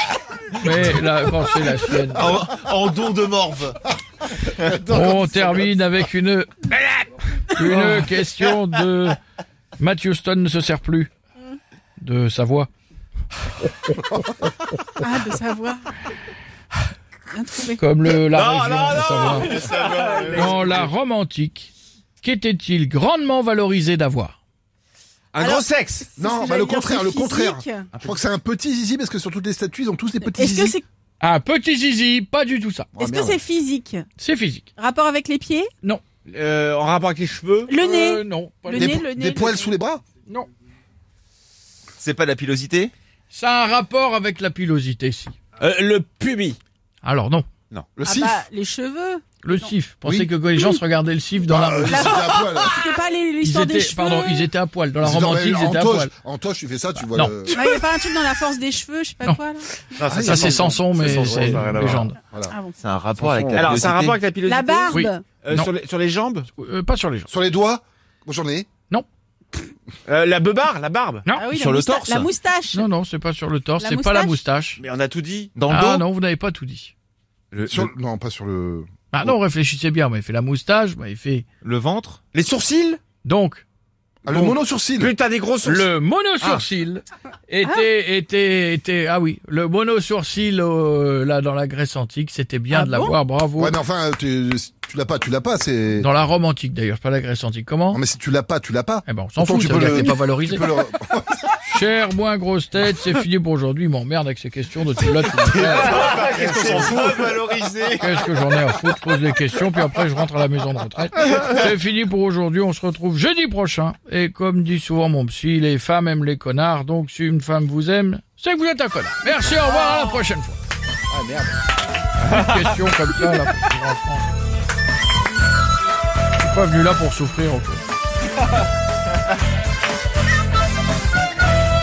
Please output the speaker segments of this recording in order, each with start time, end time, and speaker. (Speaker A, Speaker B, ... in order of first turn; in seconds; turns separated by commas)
Speaker A: 0.5-2.4, Speaker B: 2.1-3.8, Speaker C: 4.6-5.7, Speaker A: 4.9-6.6, Speaker A: 7.5-9.2, Speaker B: 7.7-8.1, Speaker A: 9.8-11.1, Speaker A: 12.0-12.7, Speaker D: 15.0-15.9, Speaker D: 17.3-17.8, Speaker A: 17.8-19.6, Speaker E: 18.3-20.9, Speaker B: 18.8-20.5, Speaker D: 19.4-20.4, Speaker A: 20.3-24.4, Speaker E: 25.3-26.0, Speaker D: 25.4-27.9, Speaker C: 26.1-30.8, Speaker D: 30.2-30.8, Speaker A: 31.2-32.9, Speaker C: 33.0-33.4, Speaker D: 33.0-34.0, Speaker A: 34.2-34.7, Speaker D: 34.8-35.7, Speaker E: 36.3-37.7, Speaker D: 37.7-39.7, Speaker A: 37.8-39.0, Speaker C: 38.7-40.0, Speaker B: 42.0-42.9, Speaker A: 43.3-45.4, Speaker E: 45.6-46.6, Speaker A: 47.0-47.5, Speaker C: 48.0-48.4, Speaker D: 48.0-49.7, Speaker A: 49.4-52.2, Speaker C: 50.0-50.3, Speaker C: 51.5-52.9, Speaker D: 51.9-54.5, Speaker A: 53.4-56.1, Speaker C: 55.0-57.7, Speaker A: 57.1-57.4, Speaker D: 57.5-59.8, Speaker E: 60.0-62.1, Speaker C: 60.0-62.5, Speaker A: 60.1-62.2, Speaker D: 62.5-62.8, Speaker B: 62.8-64.2, Speaker C: 63.2-63.8, Speaker E: 63.5-66.5, Speaker D: 64.4-65.2, Speaker A: 64.9-65.7, Speaker A: 66.5-67.3, Speaker C: 67.3-68.7, Speaker E: 70.1-71.3, Speaker A: 71.2-71.5, Speaker D: 71.3-72.8, Speaker B: 71.5-72.3, Speaker A: 72.7-74.8, Speaker D: 73.8-74.4, Speaker E: 74.8-75.5, Speaker B: 75.5-76.0, Speaker A: 75.7-76.9, Speaker B: 77.5-77.9, Speaker C: 77.7-79.4, Speaker A: 79.1-81.4, Speaker B: 81.6-82.3, Speaker E: 82.3-83.0, Speaker A: 83.2-83.6, Speaker C: 84.2-85.1, Speaker E: 84.3-85.9, Speaker A: 85.6-93.8, Speaker D: 92.7-93.1, Speaker C: 93.6-96.1, Speaker A: 96.0-98.0, Speaker C: 97.9-101.5, Speaker A: 99.0-100.7, Speaker A: 101.6-105.9, Speaker B: 105.6-107.9, Speaker E: 105.6-107.9, Speaker C: 106.2-107.1, Speaker A: 108.0-120.6, Speaker C: 121.1-121.7, Speaker A: 122.2-124.2, Speaker A: 126.4-127.8